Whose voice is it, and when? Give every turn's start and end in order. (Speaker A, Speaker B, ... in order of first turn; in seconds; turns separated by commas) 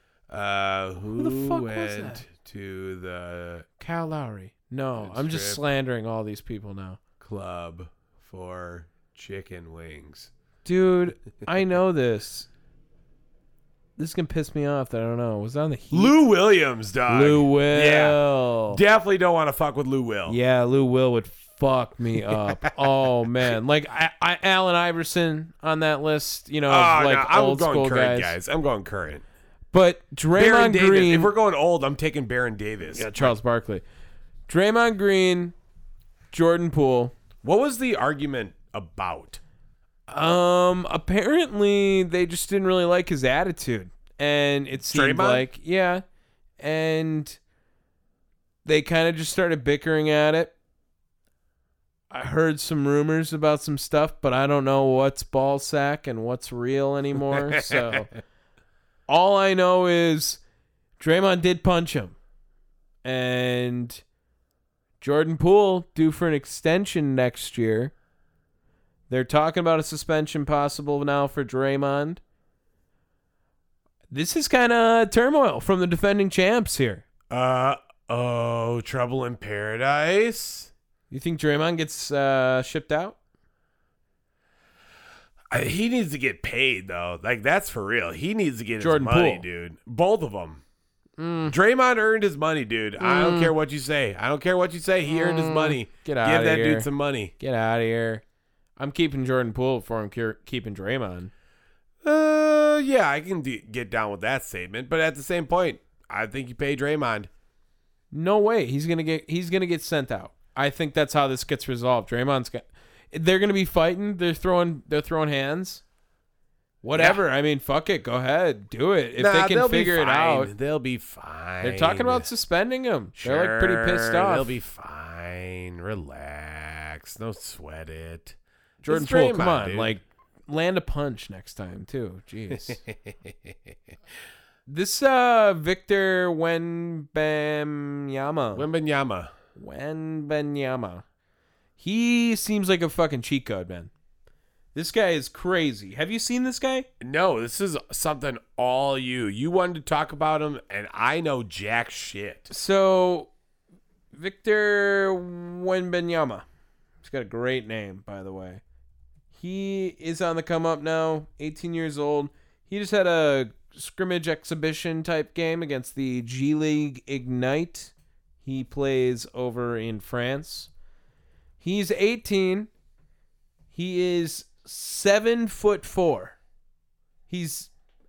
Speaker A: 0.3-3.6, Speaker B: 1.1-2.2, Speaker B: 3.8-7.0, Speaker A: 5.0-5.6, Speaker A: 7.2-10.3, Speaker B: 10.6-12.5, Speaker B: 14.0-16.1, Speaker A: 15.9-20.4, Speaker B: 17.1-18.8, Speaker B: 20.3-28.4, Speaker A: 26.7-29.2, Speaker B: 29.7-31.3, Speaker A: 30.4-33.3, Speaker B: 32.9-33.8, Speaker B: 34.5-35.5, Speaker B: 36.3-37.1, Speaker A: 37.4-39.4, Speaker B: 40.1-46.0, Speaker A: 44.9-45.4, Speaker B: 46.6-47.4, Speaker B: 48.6-50.5, Speaker B: 52.1-58.1, Speaker A: 57.3-58.0, Speaker B: 59.1-60.4, Speaker B: 61.0-62.1, Speaker B: 63.0-64.0, Speaker B: 65.0-67.9, Speaker B: 69.1-72.2, Speaker B: 74.1-77.0, Speaker A: 77.3-80.7, Speaker B: 81.1-83.2, Speaker A: 85.5-90.6, Speaker B: 88.8-89.4, Speaker B: 91.2-91.5, Speaker A: 91.5-97.3, Speaker B: 93.0-93.5, Speaker B: 95.1-96.9, Speaker B: 97.4-98.2, Speaker B: 98.8-101.3, Speaker A: 102.0-107.3, Speaker B: 108.1-115.8, Speaker B: 116.8-120.5, Speaker A: 117.0-117.2, Speaker A: 119.2-122.2, Speaker B: 121.6-124.5, Speaker A: 123.2-128.3, Speaker B: 128.8-132.8, Speaker A: 128.9-129.9, Speaker A: 132.6-133.5, Speaker B: 134.7-138.7, Speaker A: 138.5-139.3, Speaker B: 139.6-141.0, Speaker B: 141.8-143.9, Speaker B: 144.7-146.9, Speaker A: 147.0-152.5, Speaker B: 152.5-153.3, Speaker B: 154.1-156.4, Speaker B: 157.0-158.6, Speaker B: 159.3-167.9, Speaker B: 168.4-170.7, Speaker B: 171.6-172.7, Speaker B: 173.7-176.3, Speaker B: 177.3-177.7